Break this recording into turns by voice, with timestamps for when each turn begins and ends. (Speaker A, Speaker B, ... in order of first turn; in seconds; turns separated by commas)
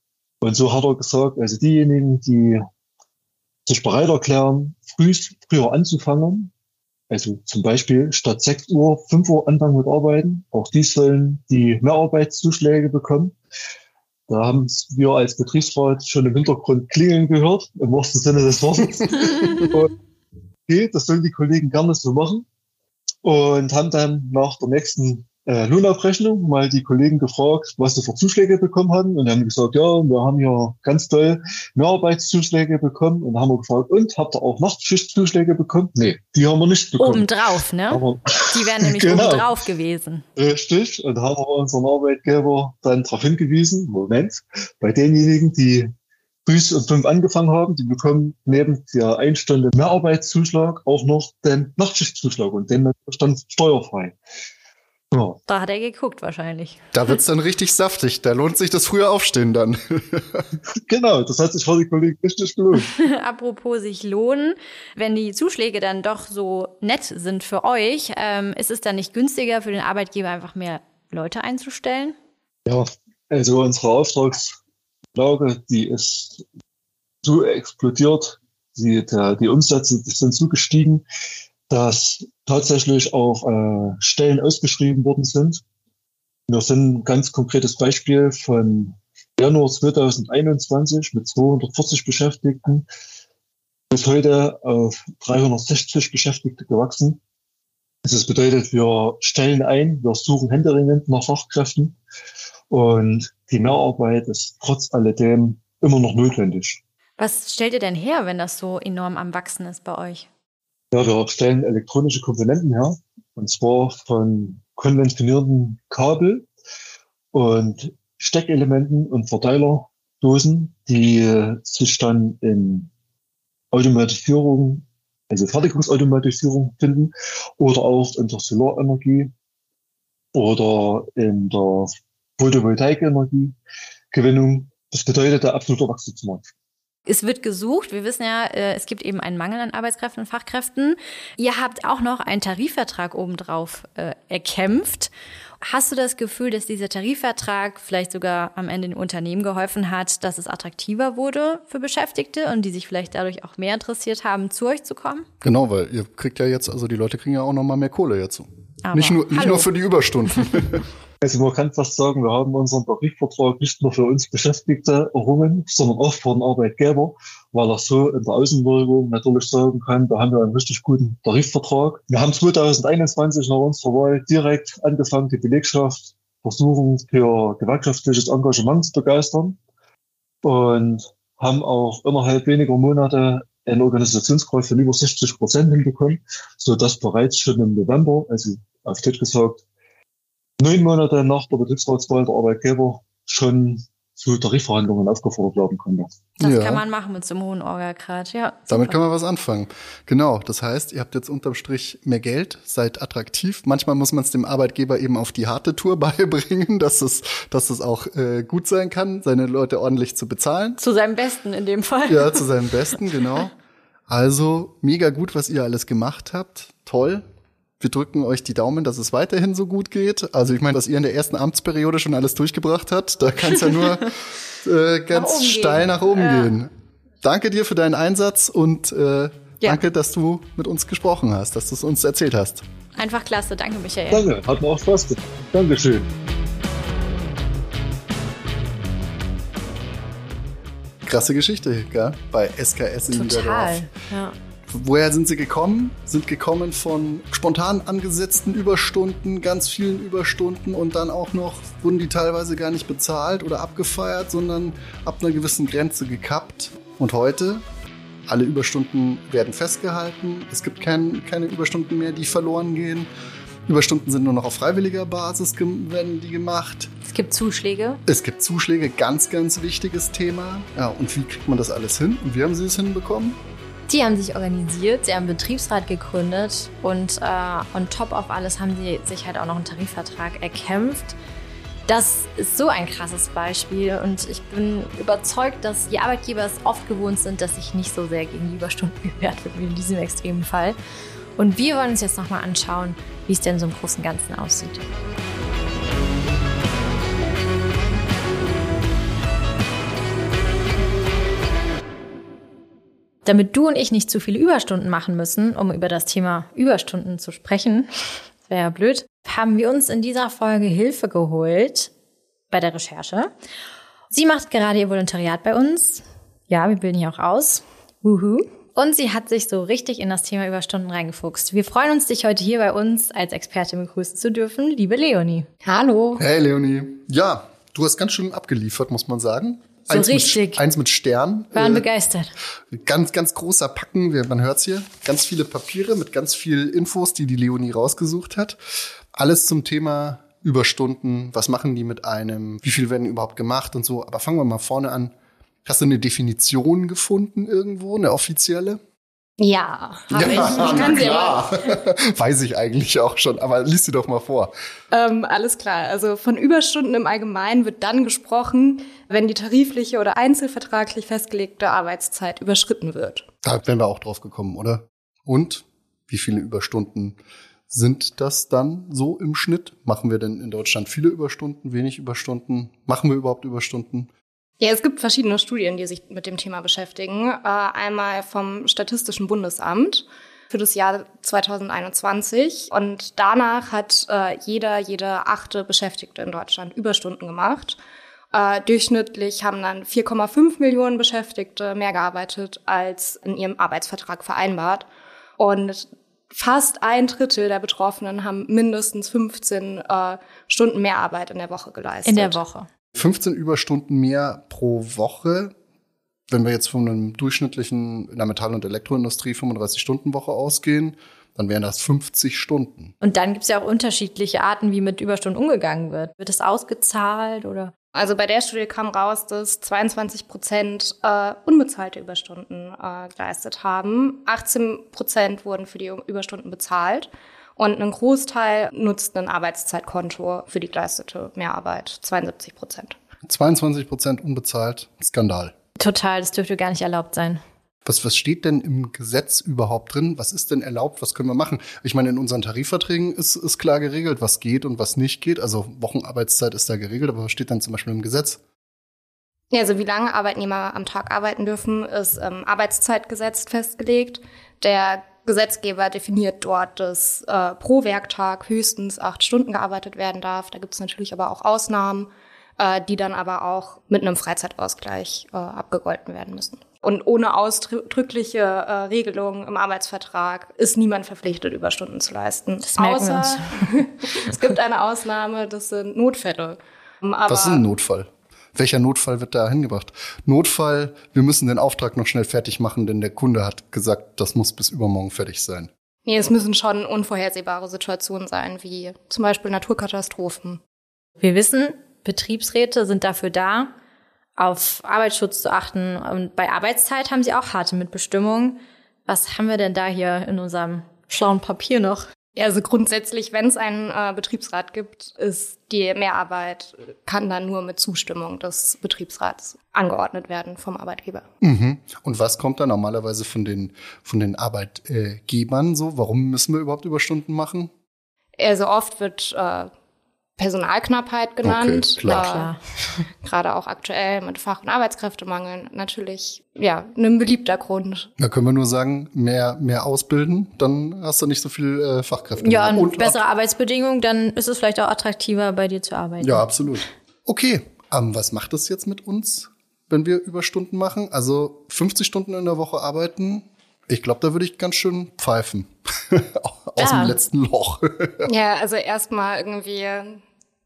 Speaker A: 0.4-2.6, Speaker A: 3.6-6.5, Speaker A: 7.1-13.4, Speaker A: 14.3-19.9, Speaker A: 20.7-22.5, Speaker A: 23.2-37.3, Speaker B: 37.0-40.2, Speaker A: 37.9-39.6, Speaker A: 40.4-45.9, Speaker A: 46.5-54.1, Speaker A: 55.1-55.4, Speaker B: 55.5-56.8, Speaker C: 56.9-60.5, Speaker A: 60.9-62.9, Speaker B: 62.8-72.2, Speaker A: 72.7-74.6, Speaker A: 75.1-76.5, Speaker A: 77.2-81.0, Speaker A: 81.7-85.6, Speaker A: 86.5-92.9, Speaker A: 93.9-97.2, Speaker A: 98.0-102.0, Speaker A: 102.7-106.8, Speaker B: 107.2-110.3, Speaker A: 110.9-116.5, Speaker A: 117.3-122.9, Speaker A: 123.7-129.3, Speaker A: 130.3-133.6, Speaker A: 134.1-136.5, Speaker B: 137.1-145.1, Speaker B: 145.6-155.3, Speaker C: 155.4-160.8, Speaker B: 158.8-159.7, Speaker A: 161.2-179.6, Speaker A: 180.4-189.6, Speaker A: 190.6-196.1, Speaker C: 196.4-196.8, Speaker B: 196.4-199.0, Speaker C: 198.7-210.8, Speaker B: 210.8-212.9, Speaker C: 212.1-213.5, Speaker C: 214.1-217.2, Speaker C: 217.8-226.7, Speaker B: 225.1-226.5, Speaker C: 227.2-232.6, Speaker B: 233.0-234.2, Speaker A: 234.1-236.1, Speaker C: 241.0-243.8, Speaker B: 243.1-244.3, Speaker C: 244.7-257.6, Speaker C: 258.3-263.1, Speaker C: 263.6-266.9, Speaker B: 267.1-268.0, Speaker C: 268.1-273.4, Speaker B: 273.9-281.1, Speaker B: 281.9-290.8, Speaker B: 291.4-294.9, Speaker B: 303.2-307.9, Speaker B: 308.4-311.9, Speaker B: 312.5-313.3, Speaker B: 314.1-325.4, Speaker D: 325.6-326.2, Speaker C: 326.2-331.9, Speaker B: 329.9-330.6, Speaker B: 331.5-332.3, Speaker C: 332.7-338.6, Speaker C: 339.1-345.1, Speaker C: 345.6-348.8, Speaker D: 349.4-351.7, Speaker C: 350.1-354.5, Speaker B: 350.2-351.1, Speaker D: 354.9-363.3, Speaker C: 363.4-367.2, Speaker C: 367.7-374.1, Speaker D: 374.6-387.8, Speaker D: 388.3-394.9, Speaker D: 395.4-402.4, Speaker B: 402.1-402.7, Speaker C: 402.9-405.5, Speaker C: 406.3-412.9, Speaker B: 413.0-417.7, Speaker D: 417.9-433.0, Speaker C: 433.3-435.5, Speaker B: 435.8-437.4, Speaker C: 437.9-448.4, Speaker D: 449.5-477.6, Speaker B: 472.6-473.7, Speaker C: 477.3-485.7, Speaker D: 486.1-490.6, Speaker B: 491.2-493.7, Speaker B: 494.4-502.1, Speaker D: 502.4-511.3, Speaker C: 511.4-517.7, Speaker D: 518.4-519.7, Speaker D: 520.4-522.5, Speaker C: 521.4-522.2, Speaker B: 522.1-522.6, Speaker D: 523.2-528.1, Speaker C: 528.2-533.2, Speaker B: 532.4-536.5, Speaker C: 536.2-548.3, Speaker B: 546.8-547.2, Speaker D: 548.2-550.2